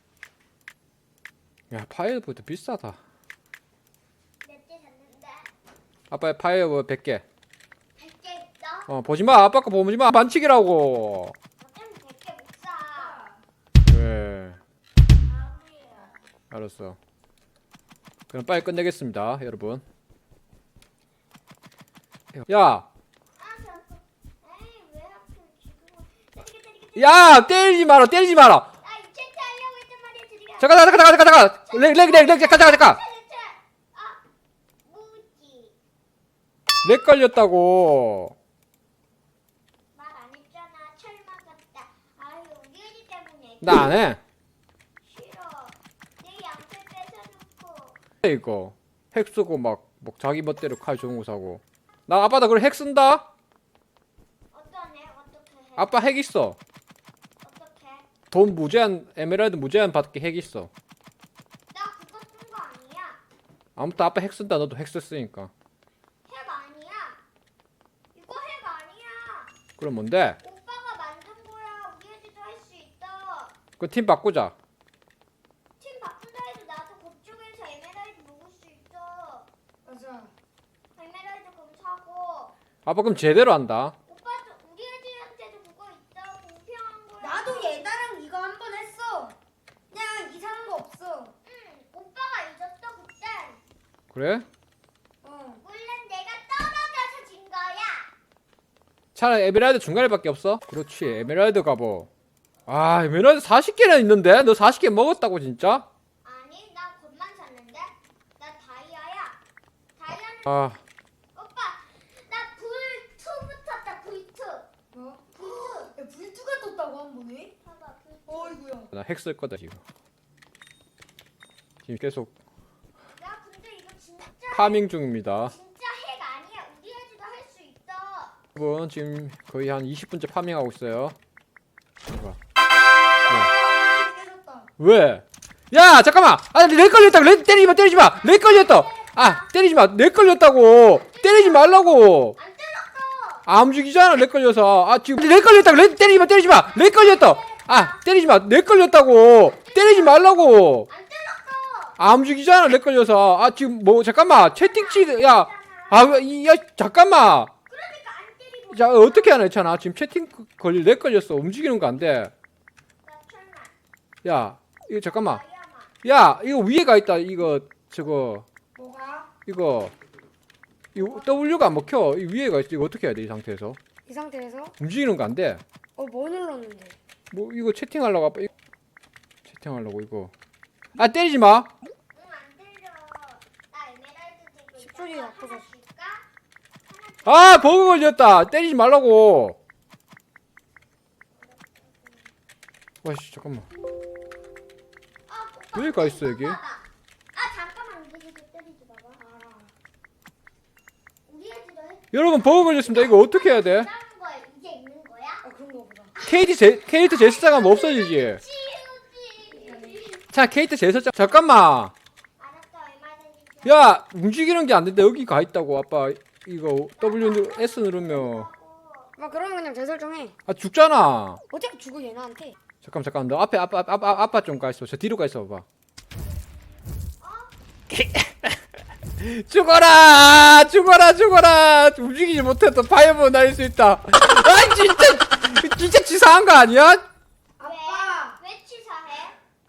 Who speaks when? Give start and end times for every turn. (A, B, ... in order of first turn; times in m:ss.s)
0:01.7-0:03.0 A
0:04.4-0:05.5 B
0:06.1-0:07.2 A
0:08.0-0:08.9 B
0:08.9-0:11.4 A
0:11.6-0:13.2 B
0:12.9-0:13.4 C
0:13.8-0:14.6 A
0:15.3-0:16.1 B
0:16.5-0:17.0 A
0:18.3-0:19.8 A
0:22.4-0:22.9 A
0:23.4-0:27.7 B
0:27.0-0:28.7 A
0:28.8-0:34.2 B
0:30.6-0:33.0 A
0:34.8-0:35.8 B
0:36.8-0:38.4 A
0:40.0-0:44.0 B
0:43.6-0:44.2 A
0:45.0-0:48.0 B
0:48.2-0:53.2 A
0:54.5-0:56.0 B
0:55.8-0:56.6 A
0:57.4-0:58.1 B
0:58.3-1:00.7 A
1:01.7-1:03.2 B
1:03.8-1:05.5 A
1:06.3-1:07.2 B
1:08.1-1:09.5 B
1:09.8-1:10.4 A
1:10.4-1:13.6 B
1:13.8-1:14.5 A
1:15.8-1:19.5 B
1:19.8-1:20.3 C
1:21.0-1:22.6 B
1:22.8-1:24.0 A
1:24.1-1:27.8 B
1:27.2-1:29.4 C
1:29.9-1:31.3 C
1:31.4-1:33.6 B
1:34.1-1:34.5 A
1:35.2-1:35.6 C
1:35.6-1:38.1 B
1:39.2-1:42.1 A
1:42.7-1:45.9 A
1:46.2-1:49.4 B
1:50.0-1:50.6 B
1:50.5-1:50.8 A
1:51.4-1:54.7 B
1:54.9-1:57.5 C
1:55.4-1:55.9 B
1:57.6-1:58.6 B
1:58.3-1:58.9 C
1:58.9-1:59.8 A
2:01.9-2:02.3 A
2:03.2-2:04.8 B
2:04.5-2:05.5 A
2:05.4-2:08.4 B
2:08.6-2:11.2 A
2:12.1-2:12.4 A
2:13.2-2:14.7 C
2:14.8-2:22.4 A
2:18.1-2:19.5 B
2:21.0-2:23.5 B
2:23.5-2:30.9 A
2:26.6-2:28.0 B
2:29.6-2:32.0 B
2:32.0-2:37.5 A
2:34.6-2:36.2 B
2:37.7-2:39.5 B
2:38.7-2:42.3 A
2:43.0-2:43.7 B
2:44.2-2:45.4 A
2:45.1-2:45.9 B
2:46.0-2:48.5 A
2:48.8-2:49.3 C
2:49.5-2:49.9 A
2:51.0-2:53.8 A
2:54.1-2:54.7 C
2:54.8-2:55.6 A
2:56.0-2:57.0 C
2:57.3-2:58.5 A
2:59.5-3:00.3 A
3:01.0-3:01.7 A
3:02.1-3:06.3 B
3:04.8-3:05.6 C
3:06.9-3:08.1 B
3:07.3-3:09.6 A
3:11.4-3:12.3 B
3:13.0-3:13.7 A
3:15.3-3:19.2 B
3:15.8-3:16.6 A
3:19.2-3:19.7 C
3:21.3-3:25.4 B
3:22.1-3:23.9 A
3:25.4-3:26.1 C
3:26.2-3:30.2 B
3:26.2-3:28.4 A
3:29.5-3:30.1 C
3:30.3-3:31.9 A
3:32.4-3:33.9 B
3:33.6-3:38.5 A
3:37.0-3:39.2 B
3:39.2-3:40.4 C
3:40.5-3:41.4 A
3:41.5-3:42.6 C
3:42.8-3:45.6 A
3:47.2-3:47.5 B
3:47.9-3:48.5 A
3:49.2-3:57.0 A
3:57.6-3:58.4 C
3:57.6-3:59.4 B